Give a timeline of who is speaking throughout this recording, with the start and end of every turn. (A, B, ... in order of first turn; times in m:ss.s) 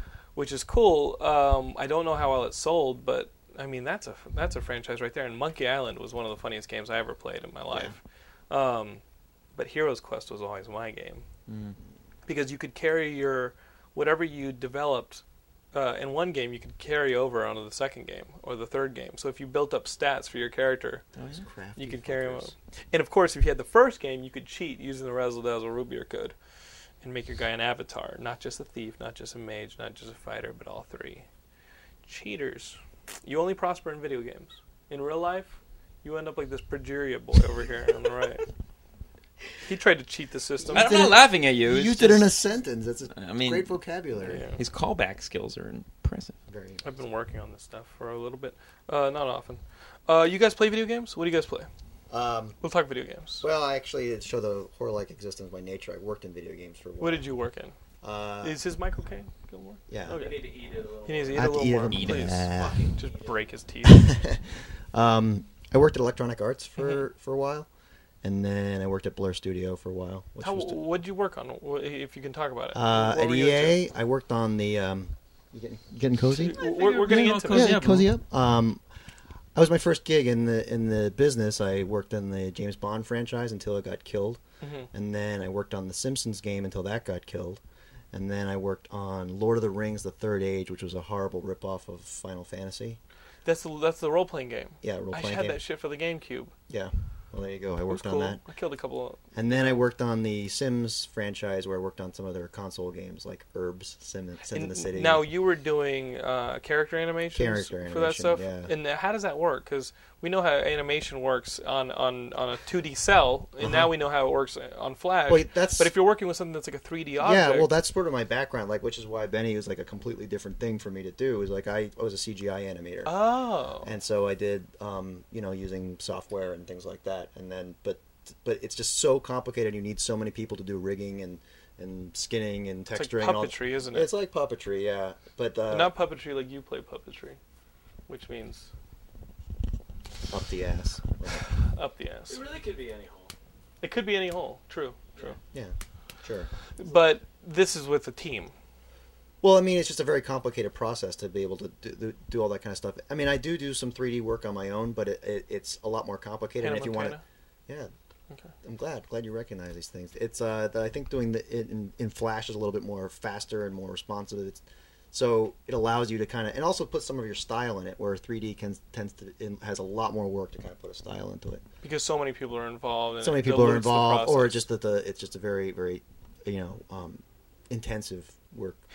0:00.4-0:09.0 A
0:09.6-0:11.2 A
0:11.5-0:11.8 B
0:12.3-0:15.2 A
0:15.7-0:21.1 A
0:21.2-0:21.4 B
0:21.3-0:22.5 C
0:21.8-0:26.4 A
0:27.0-0:31.2 A
0:32.0-0:38.4 A
0:39.7-0:40.9 A
0:40.6-0:44.4 C
0:40.7-0:42.4 B
0:43.1-0:43.7 B
0:44.2-0:44.6 A
0:44.6-0:46.4 B
0:46.5-0:46.8 C
0:46.8-0:51.7 A
0:52.1-0:52.6 C
0:52.6-0:53.4 A
0:53.4-0:57.3 C
0:57.0-0:57.8 A
0:58.0-0:58.6 C
0:58.4-1:00.4 A
0:59.9-1:00.2 C
1:00.1-1:01.6 D
1:01.0-1:04.1 A
1:01.3-1:02.9 C
1:01.9-1:02.4 B
1:02.5-1:03.4 D
1:03.8-1:07.7 C
1:08.2-1:10.8 C
1:10.4-1:13.8 A
1:12.7-1:18.8 C
1:16.4-1:17.8 A
1:16.6-1:18.1 B
1:19.6-1:24.4 C
1:24.6-1:24.9 A
1:24.9-1:27.6 C
1:28.1-1:33.0 C
1:33.4-1:36.5 A
1:34.8-1:35.6 C
1:36.7-1:38.4 C
1:37.9-1:39.8 A
1:39.3-1:45.3 C
1:44.5-1:57.7 A
1:47.3-1:48.8 C
1:53.6-1:53.9 C
1:55.3-1:55.9 C
1:57.2-2:03.2 C
2:03.0-2:03.9 A
2:03.8-2:15.9 C
2:12.9-2:14.1 A
2:15.7-2:17.4 A
2:18.1-2:18.7 A
2:20.3-2:21.5 C
2:21.7-2:22.4 A
2:22.3-2:23.3 D
2:23.8-2:25.4 A
2:25.5-2:26.5 C
2:26.8-2:28.5 A
2:29.4-2:37.9 C
2:36.6-2:37.2 A
2:38.6-2:51.6 C
2:51.8-2:54.6 A
2:53.2-2:58.8 C